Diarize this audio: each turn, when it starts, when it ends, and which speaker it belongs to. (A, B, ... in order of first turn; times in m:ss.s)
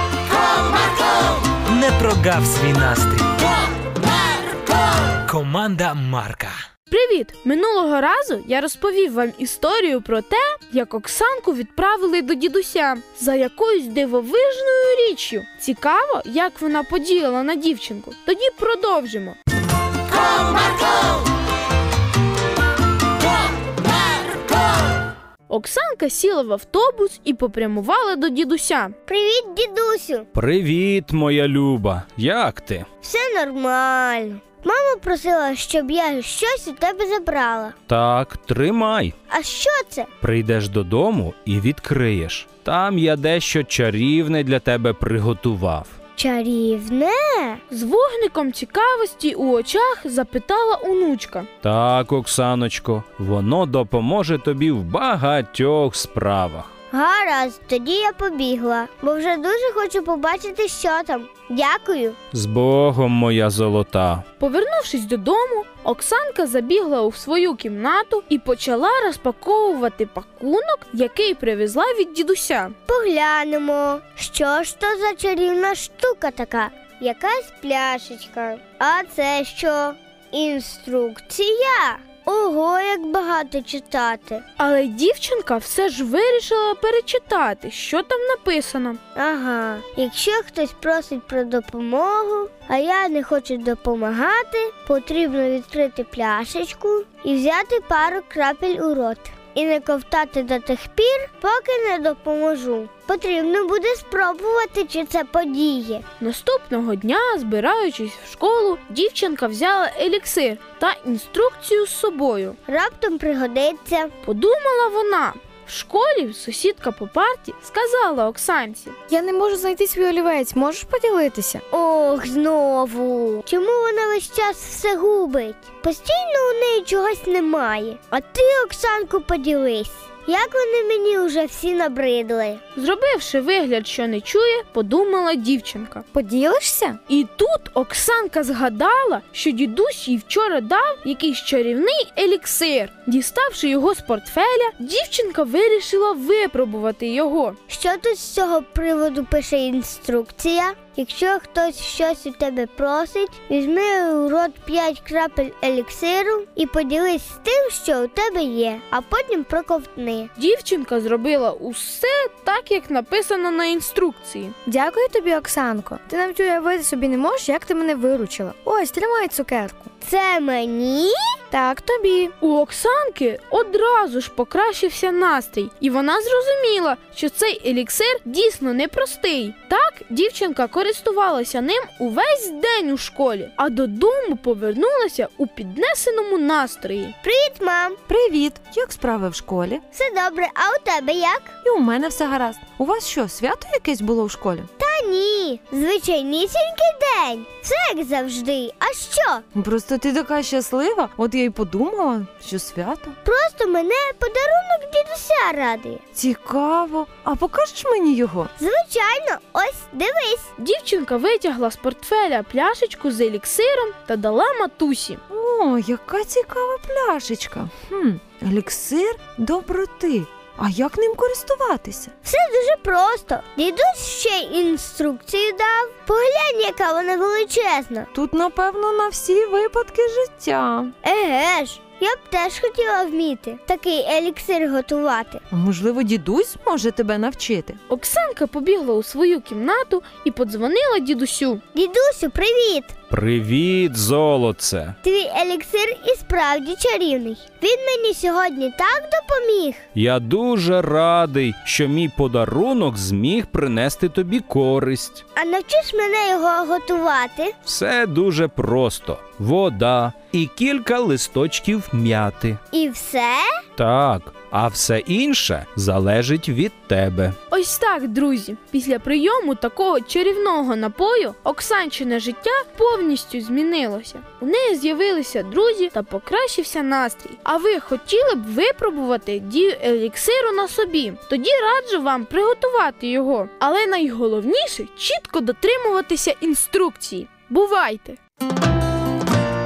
0:01.7-0:03.4 A
0:05.3-0:06.5 A
0:06.9-0:19.4 B
0:25.5-0:29.0 B
0:29.1-0:30.3 C
0:30.3-0:32.9 D
0:33.0-0:37.8 C
0:37.9-0:39.1 D
0:39.3-0:40.1 C
0:40.2-0:46.0 D
0:46.2-0:47.6 C
0:47.7-0:51.5 B
0:51.6-0:56.7 D
0:56.9-1:02.2 C
1:02.3-1:04.2 D
1:04.4-1:12.8 B
1:12.9-1:24.4 C
1:24.6-1:29.0 B
1:29.2-1:46.0 C
1:46.2-1:52.6 B
1:52.7-1:54.1 C
1:54.2-1:59.0 B
1:59.1-2:01.6 E
2:01.7-2:12.6 C
2:12.8-2:16.0 B
2:16.1-2:17.0 E
2:17.1-2:27.6 B
2:27.7-2:40.3 C
2:40.4-2:44.6 B
2:44.7-2:49.9 E
2:50.0-2:51.4 C
2:51.5-2:52.3 E
2:52.4-3:07.2 B
3:07.2-3:08.0 C
3:08.1-3:09.8 F
3:09.9-3:11.6 C
3:11.6-3:14.7 F
3:14.8-3:19.4 C
3:19.6-3:23.2 F
3:23.2-3:26.0 C
3:26.1-3:28.5 F
3:28.6-3:30.5 C
3:30.6-3:35.2 B
3:35.3-3:42.1 F
3:42.2-3:48.1 C
3:48.1-3:50.9 F
3:51.0-3:55.4 C
3:55.5-3:57.8 F
3:57.9-4:01.6 B
4:01.7-4:03.0 C
4:03.1-4:05.0 D
4:05.0-4:09.9 C
4:10.0-4:15.2 D
4:15.4-4:17.6 C
4:17.7-4:22.6 D
4:22.7-4:23.5 C
4:23.8-4:27.4 D
4:27.5-4:48.2 B